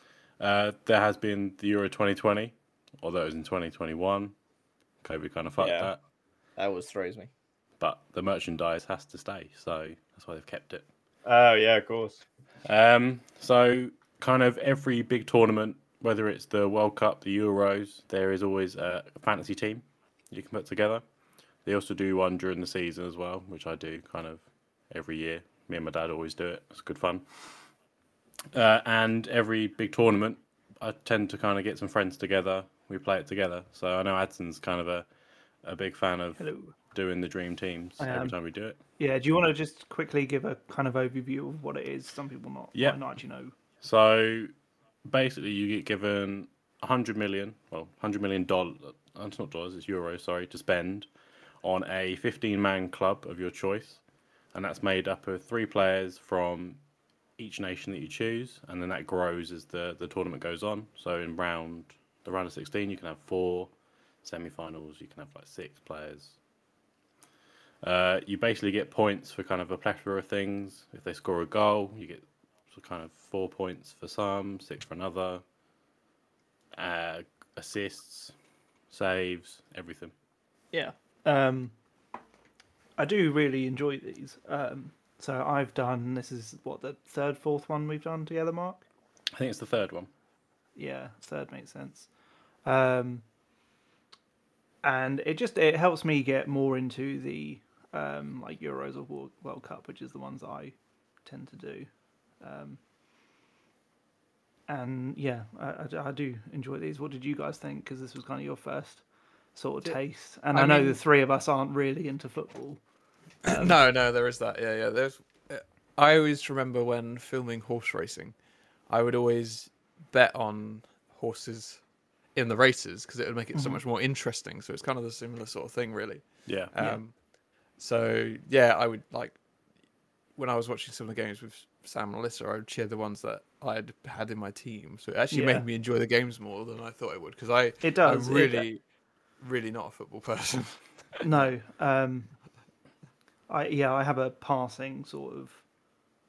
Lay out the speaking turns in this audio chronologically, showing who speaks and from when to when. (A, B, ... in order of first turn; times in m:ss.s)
0:00.4-0:04.3 A
0:05.0-0:06.0 A
0:05.6-0:05.9 B
0:06.6-0:07.3 B
0:07.8-0:10.8 A
0:11.2-0:12.2 B
0:12.6-0:21.0 A
0:21.6-0:27.3 A
0:28.5-0:35.1 A
0:35.6-0:38.8 A
0:36.4-0:36.8 C
0:38.0-0:38.4 C
0:39.0-0:43.5 C
0:42.7-0:43.0 A
0:43.8-0:44.5 A
0:45.1-0:51.1 A
0:51.6-0:54.0 A
0:54.5-0:56.8 A
0:57.4-1:03.7 A
1:04.2-1:06.4 A
1:07.8-1:15.4 A
1:16.8-1:18.3 A
1:18.9-1:20.1 A
1:20.7-1:21.7 C
1:23.0-1:28.8 C
1:29.3-1:30.1 A
1:30.8-1:32.1 C
1:32.6-1:33.2 C
1:34.8-1:42.8 C
1:44.7-1:49.0 C
1:49.6-1:52.8 C
1:50.5-1:51.0 D
1:53.4-1:53.8 C
1:53.4-1:58.4 D
1:58.9-2:01.8 D
2:02.4-2:07.2 D
2:03.5-2:03.8 C
2:06.5-2:06.7 A
2:07.8-2:09.4 D
2:10.4-2:18.8 D
2:15.3-2:15.7 C
2:17.8-2:18.7 C
2:19.4-2:21.2 D
2:21.2-2:22.3 C
2:23.5-2:25.6 C